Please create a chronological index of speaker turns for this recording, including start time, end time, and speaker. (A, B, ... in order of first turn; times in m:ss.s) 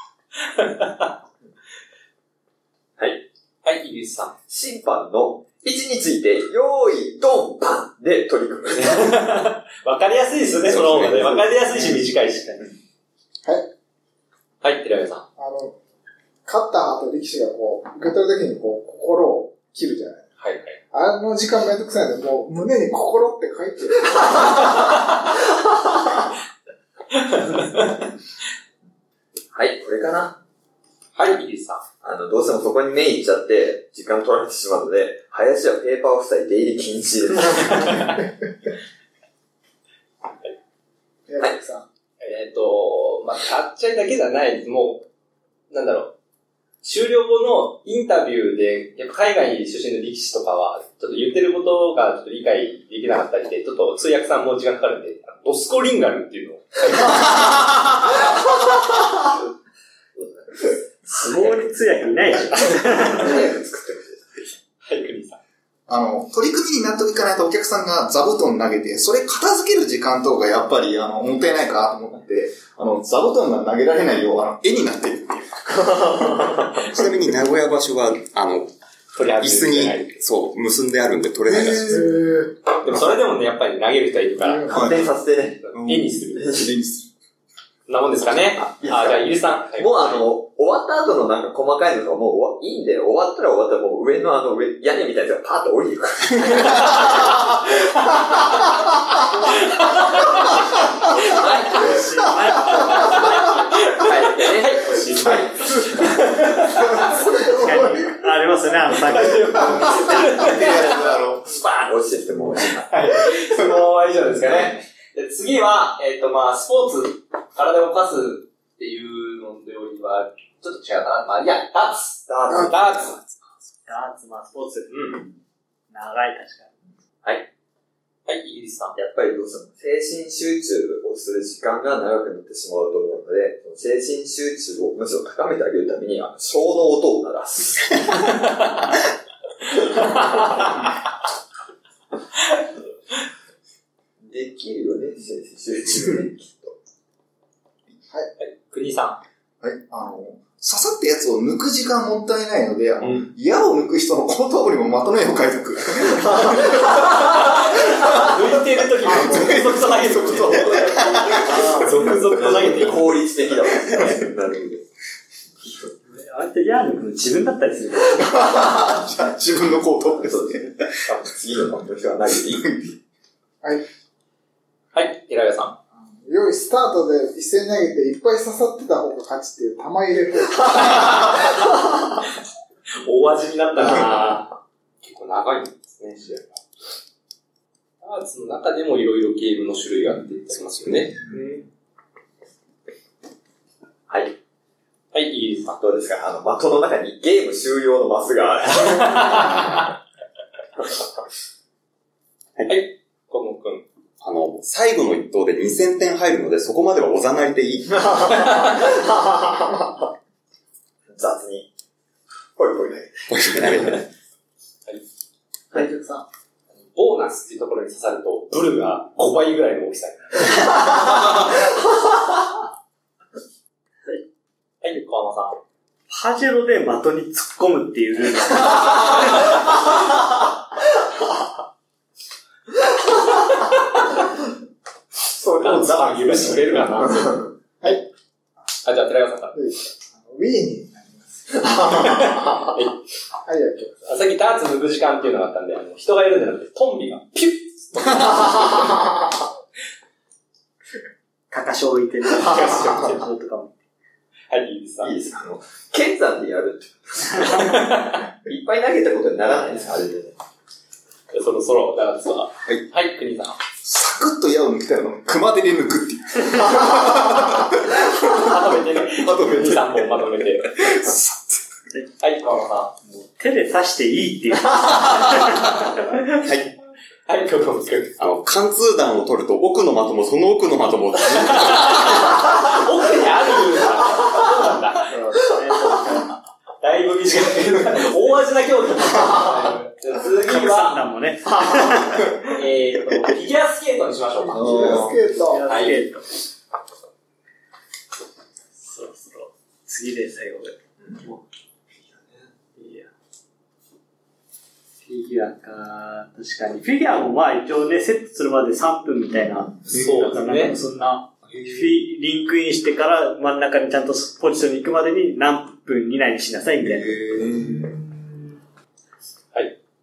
0:00.5-0:01.1 A
0:03.6-0:04.3 A
0:04.5-0:09.2 B
0:08.8-0:12.7 A
0:10.7-0:11.4 C
0:13.4-0:13.7 D
0:14.6-0:15.2 A
0:15.4-0:15.8 D
0:16.4-0:20.2 D
0:20.4-0:20.8 A
0:20.9-0:24.8 D
0:27.1-0:28.0 A
0:29.5-0:30.4 B
0:31.1-0:31.8 A
0:32.0-0:38.1 B
0:41.3-0:41.8 D
0:42.2-0:45.0 A
0:45.7-0:46.1 A
0:46.8-0:57.5 A
1:00.2-1:00.7 B
1:01.1-1:03.5 E
1:03.1-1:04.5 B
1:04.8-1:05.4 A
1:05.9-1:16.5 F
1:16.8-1:18.7 C
1:19.1-1:20.2 A
1:19.2-1:22.1 C
1:21.5-1:21.9 F
1:21.9-1:22.5 D
1:22.8-1:24.7 A
1:24.4-1:24.8 D
1:24.6-1:25.6 B
1:24.7-1:25.1 F
1:25.6-1:26.6 A
1:25.7-1:27.1 F
1:27.9-1:30.3 A
1:28.6-1:37.0 B
1:39.6-1:40.4 A
1:41.1-1:42.3 B
1:41.4-1:41.9 A
1:41.6-1:43.2 E
1:42.5-1:47.5 A
1:44.0-1:44.8 B
1:47.2-1:49.9 E
1:49.0-1:51.0 A
1:49.8-1:51.5 F
1:51.6-1:52.9 B
1:52.6-2:03.2 A
2:02.3-2:03.1 B
2:03.9-2:05.2 E
2:04.9-2:05.2 A
2:05.9-2:06.7 E
2:08.2-2:08.9 A
2:08.9-2:18.0 B
2:18.2-2:18.8 A
2:19.8-2:20.7 A
2:24.2-2:26.8 B
2:28.4-2:29.2 A
2:29.6-2:37.1 F
2:37.0-2:43.2 A
2:39.0-2:41.9 F
2:42.3-2:44.8 B
2:46.1-2:48.4 E
2:48.2-2:50.9 F
2:50.2-2:52.6 B
2:52.5-2:52.9 F
2:54.9-2:55.7 A
2:56.0-3:01.1 D
3:00.7-3:01.6 A
3:03.0-3:06.6 A
3:08.0-3:11.6 A
3:14.1-3:14.3 B
3:15.1-3:15.8 A
3:15.7-3:19.5 B
3:18.8-3:19.8 A
3:22.7-3:23.8 A
3:24.2-3:28.5 C
3:28.4-3:29.4 B
3:31.1-3:31.7 B
3:32.6-3:33.3 B
3:33.3-3:34.0 C
3:35.7-3:36.1 B
3:36.9-3:40.7 A
3:44.8-3:45.6 A
3:46.1-3:49.5 E
3:53.4-3:54.0 A
3:55.2-3:57.4 B
3:55.6-3:57.4 A
3:57.8-3:58.1 D
3:58.8-3:59.6 A
3:59.5-4:02.0 D
4:01.9-4:03.0 A
4:03.4-4:03.9 D
4:04.0-4:09.1 A
4:11.5-4:13.7 E
4:12.4-4:13.2 A
4:14.5-4:15.1 A
4:15.0-4:17.7 B
4:17.5-4:18.3 A
4:18.4-4:20.4 B
4:21.3-4:23.6 A
4:23.8-4:31.6 F
4:28.3-4:30.8 A
4:32.2-4:32.9 A
4:33.0-4:36.2 E
4:35.3-4:36.2 A
4:36.4-4:36.7 C
4:37.2-4:38.2 A
4:38.2-4:42.2 C
4:41.3-4:45.2 A
4:45.1-4:46.3 E
4:46.8-4:51.0 A
4:50.4-4:52.5 E
4:52.4-4:56.0 A
4:54.5-4:55.6 D
4:54.5-4:55.2 B
4:55.0-4:56.4 E
4:58.8-5:01.4 E
5:02.8-5:03.1 E
5:05.0-5:17.2 E
5:09.9-5:10.7 A
5:09.9-5:10.3 F
5:11.5-5:11.9 F
5:16.8-5:18.0 F